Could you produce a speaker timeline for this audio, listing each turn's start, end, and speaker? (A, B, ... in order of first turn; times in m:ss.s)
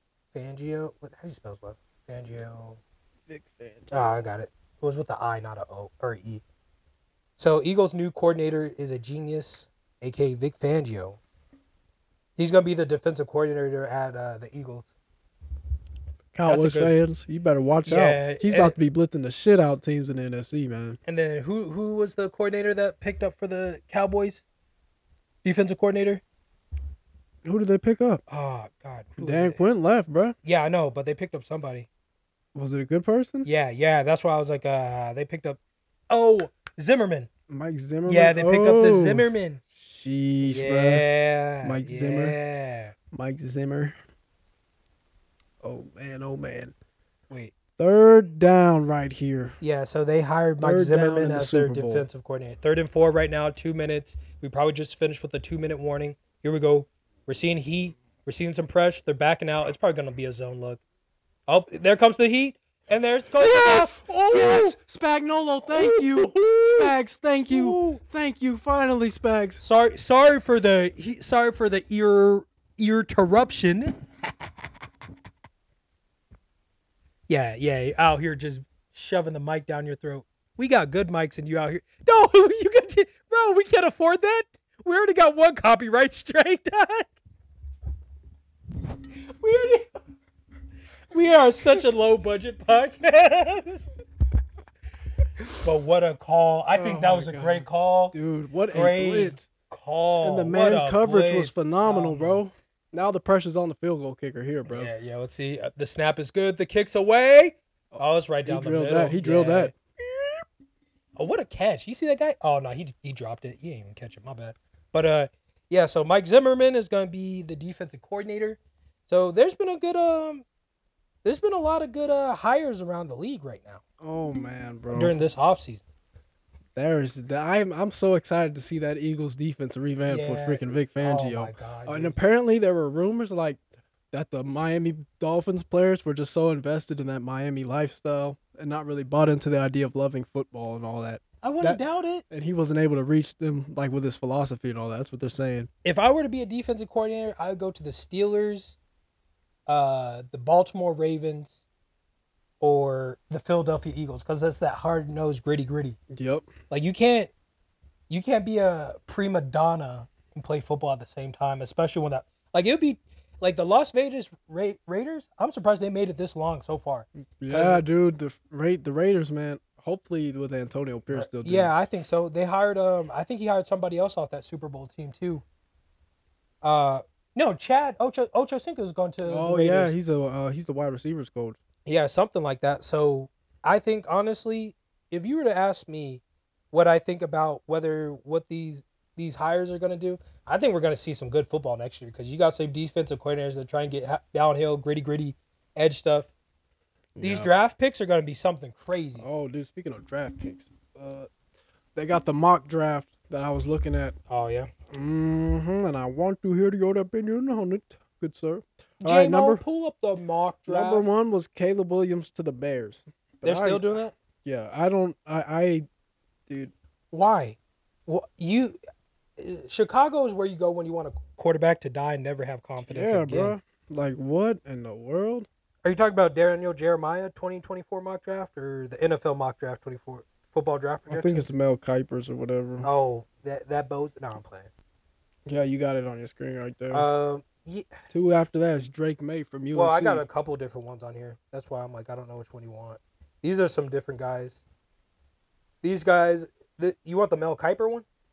0:00.3-0:02.8 A
0:03.3-0:04.1 B
0:03.9-0:06.4 A
0:07.4-0:11.2 A
0:12.4-0:14.9 A
0:16.3-0:21.0 B
0:16.4-0:17.0 A
0:17.8-0:18.8 A
0:21.0-0:24.4 A
0:25.4-0:26.2 A
0:27.4-0:28.2 B
0:28.3-0:29.6 A
0:29.2-0:30.3 B
0:30.4-0:31.9 A
0:32.5-0:33.5 B
0:33.4-0:35.6 A
0:36.1-0:37.3 A
0:37.5-0:41.0 B
0:38.0-0:39.6 A
0:40.4-0:42.9 A
0:41.6-0:42.4 B
0:43.1-0:44.0 B
0:45.6-0:46.7 B
0:47.3-0:47.5 A
0:47.8-0:49.6 B
0:49.6-1:00.8 A
0:50.6-0:52.1 B
1:01.5-1:04.8 A
1:03.4-1:09.6 B
1:05.7-1:06.9 A
1:07.5-1:08.0 A
1:09.6-1:14.0 A
1:17.3-1:27.2 A
1:29.3-1:29.9 A
1:31.1-1:33.9 A
1:35.6-1:38.1 A
1:36.7-1:39.5 B
1:38.7-1:42.4 A
1:40.2-1:44.9 B
1:44.6-1:49.7 A
1:47.9-1:50.4 B
1:51.2-2:00.4 A
2:01.2-2:03.8 A
2:04.0-2:05.1 B
2:04.9-2:05.8 A
2:06.7-2:13.6 B
2:10.1-2:12.2 A
2:14.1-2:25.7 B
2:21.4-2:22.2 A
2:25.8-2:28.8 A
2:29.7-2:31.6 A
2:32.6-2:36.0 A
2:36.1-2:36.5 B
2:36.7-2:37.3 A
2:38.1-2:47.8 A
2:47.4-2:51.7 B
2:51.1-2:55.4 A
2:56.6-2:59.9 A
2:59.2-3:01.6 B
3:01.8-3:16.3 A
3:17.2-3:17.5 B
3:17.2-3:19.2 A
3:19.2-3:21.3 B
3:21.9-3:24.2 B
3:24.3-3:24.7 A
3:24.9-3:29.6 B
3:29.0-3:31.1 A
3:30.7-3:33.8 B
3:33.4-3:34.1 A
3:34.4-3:35.8 B
3:36.5-3:36.7 B
3:37.1-3:38.8 A
3:39.4-3:43.5 A
3:42.8-3:45.5 B
3:45.8-3:51.5 A
3:51.1-3:52.9 B
3:52.8-3:54.7 A
3:55.4-3:57.1 B
3:56.9-3:57.9 A
3:58.1-4:00.2 B
3:59.7-4:04.6 A
4:05.8-4:08.0 A